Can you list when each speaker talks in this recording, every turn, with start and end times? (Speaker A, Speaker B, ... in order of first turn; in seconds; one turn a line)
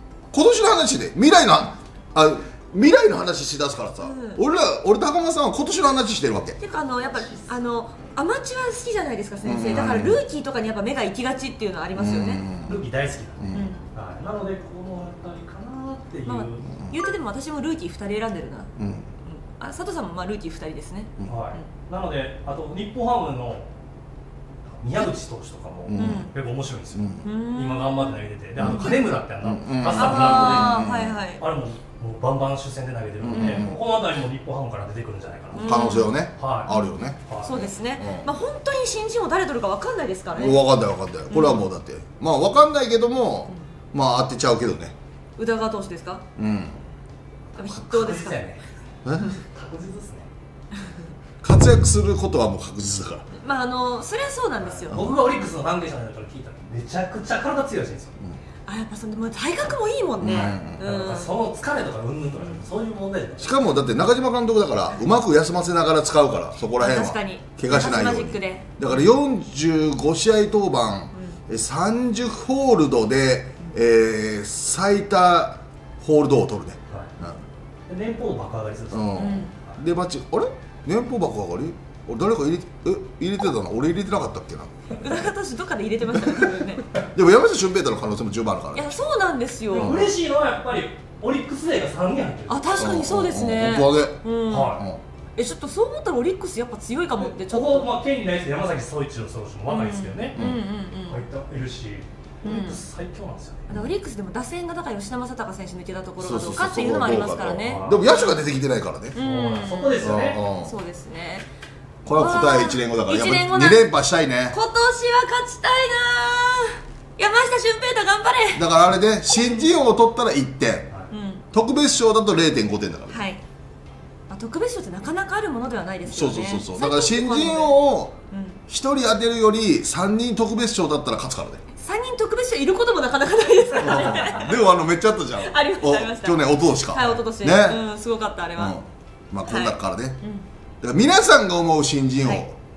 Speaker A: 0.3-6.6
Speaker B: 4.0-4.4
Speaker B: 6.6-12.4
Speaker C: 7.0-7.6
Speaker A: 9.4-10.2
Speaker A: 11.9-12.8
Speaker C: 12.6-16.7
Speaker A: 13.4-13.7
Speaker B: 13.5-13.8
Speaker B: 16.3-18.7
Speaker A: 16.6-16.9
Speaker A: 18.8-19.1
Speaker B: 19.2-21.7
Speaker C: 21.3-23.7
Speaker C: 24.7-30.9
Speaker A: 25.9-26.3
Speaker B: 26.0-26.3
Speaker A: 26.9-27.2
Speaker B: 27.2-29.0
Speaker A: 28.6-31.2
Speaker B: 29.9-31.4
Speaker C: 31.4-36.7
Speaker A: 33.2-33.8
Speaker B: 33.3-33.7
Speaker B: 35.5-36.1
Speaker A: 35.6-38.3
Speaker B: 36.7-40.7
Speaker C: 37.2-37.7
Speaker A: 40.4-45.0
Speaker B: 41.3-41.7
Speaker B: 45.4-46.2
Speaker A: 46.4-46.8
Speaker C: 47.5-50.3
Speaker B: 47.6-48.5
Speaker A: 49.0-49.3
Speaker A: 51.4-53.3
Speaker B: 53.4-55.1
Speaker C: 54.6-58.1
Speaker A: 54.9-55.2
Speaker B: 58.7-61.3
Speaker A: 60.2-60.8
Speaker C: 60.3-63.7
Speaker B: 62.4-62.6
Speaker A: 63.4-77.4
Speaker B: 66.8-68.9
Speaker C: 77.9-79.8
Speaker A: 78.9-85.2
Speaker B: 79.2-79.5
Speaker B: 85.0-86.8
Speaker A: 86.2-86.5
Speaker A: 87.1-89.0
Speaker B: 88.7-90.1
Speaker C: 89.7-92.8
Speaker A: 89.7-90.1
Speaker B: 92.5-94.8
Speaker A: 92.8-94.2
Speaker C: 94.5-94.8
Speaker A: 94.8-95.0
Speaker B: 95.4-97.9
Speaker C: 97.2-100.4
Speaker B: 99.7-101.2
Speaker C: 101.0-103.7
Speaker B: 102.4-102.8
Speaker B: 103.7-108.3
Speaker A: 106.2-109.2
Speaker C: 107.6-108.2
Speaker C: 109.2-110.4
Speaker B: 109.2-111.5
Speaker A: 110.0-110.7
Speaker A: 112.0-114.6
Speaker B: 112.1-113.9
Speaker B: 114.5-118.7
Speaker A: 118.5-120.9
Speaker B: 119.3-119.7
Speaker B: 121.1-121.5
Speaker A: 121.5-123.2
Speaker B: 123.1-123.4
Speaker B: 124.3-127.8
Speaker A: 126.1-128.2
Speaker B: 128.3-128.6
Speaker A: 128.7-131.6
Speaker B: 131.8-134.6
Speaker A: 133.8-137.8
Speaker B: 135.4-138.8
Speaker A: 138.6-140.2
Speaker B: 139.4-140.4
Speaker A: 140.8-142.6